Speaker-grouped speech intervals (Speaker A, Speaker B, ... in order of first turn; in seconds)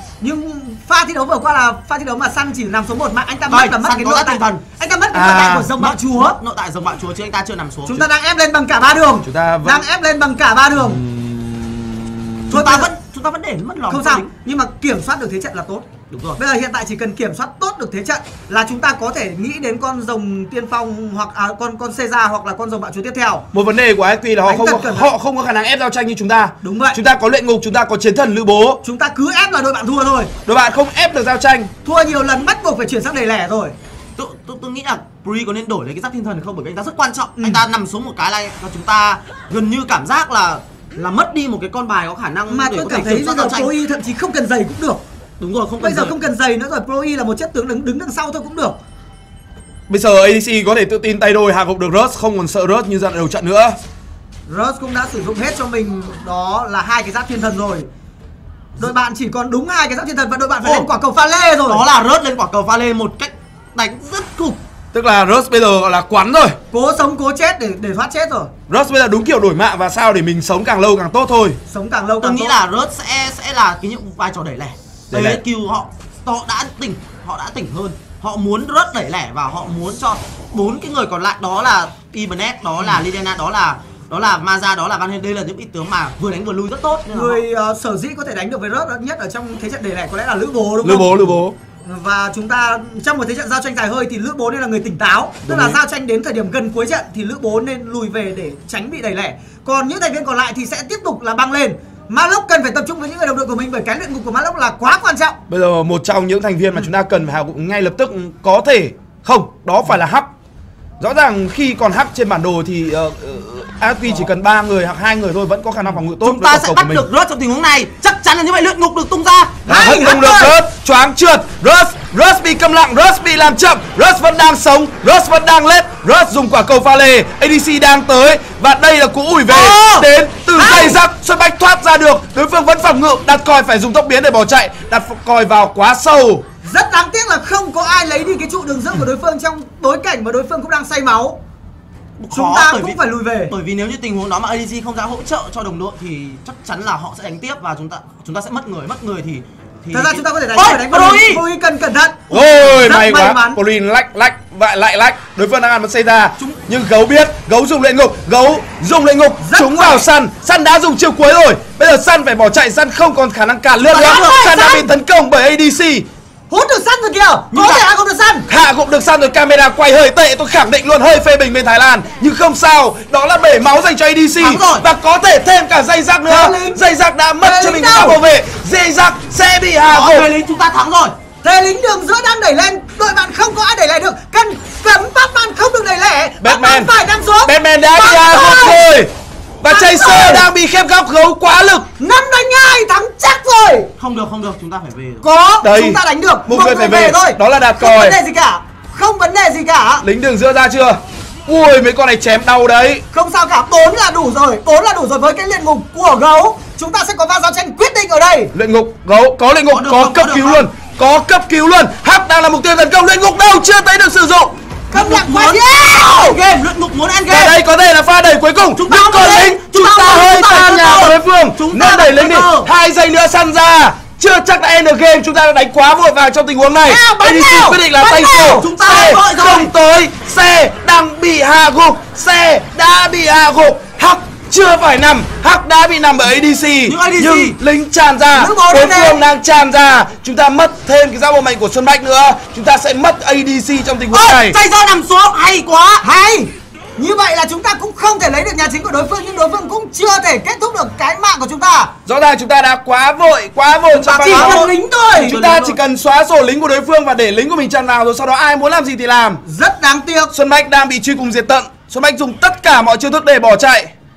Speaker A: 0.2-6.4, 7.9-11.0, 12.5-12.9, 13.9-15.9, 16.4-23.4, 24.4-25.1, 26.6-27.0, 28.8-30.3, 31.8-33.7, 37.4-37.6, 42.5-45.0, 45.8-48.8, 54.5-57.9, 58.8-61.8, 66.7-68.5, 71.7-72.6, 87.1-105.4, 119.7-120.5, 130.6-131.0, 136.6-141.4, 142.3-143.5, 149.9-153.6, 159.4-160.0, 163.9-164.9, 166.5-168.5, 176.3-176.8, 177.4-178.2, 181.4-188.8, 189.7-190.5, 192.0-193.9, 195.2-200.0, 203.1-208.5, 214.9-216.4, 226.9-228.7, 238.3-239.2, 246.0-251.9, 254.2-255.3, 259.4-260.3
Speaker B: 3.5-4.6, 5.7-8.1, 12.5-14.3, 16.1-16.4, 34.2-43.7, 45.4-46.1, 61.7-64.6, 72.2-87.4, 116.2-119.7, 129.5-130.0, 142.2-151.4, 163.9-164.4, 167.5-167.9, 174.4-174.8, 179.9-181.2, 194.0-195.2, 209.7-210.6, 214.9-217.5, 218.7-222.7, 228.6-229.7, 236.8-237.6, 244.1-246.0, 253.9-255.8
Speaker C: 5.1-5.7, 9.2-9.8, 10.7-12.6, 23.5-28.8, 30.4-31.7, 49.9-53.8, 64.9-66.6, 68.7-71.6, 75.1-75.4, 90.8-91.5, 95.4-95.8, 105.5-110.3, 111.0-117.1, 119.7-136.4, 152.3-166.1, 168.5-180.3, 186.4-186.9, 187.4-191.9, 195.6-198.2, 200.0-203.0, 208.5-214.6, 217.3-244.6, 252.1-259.4, 260.3-263.9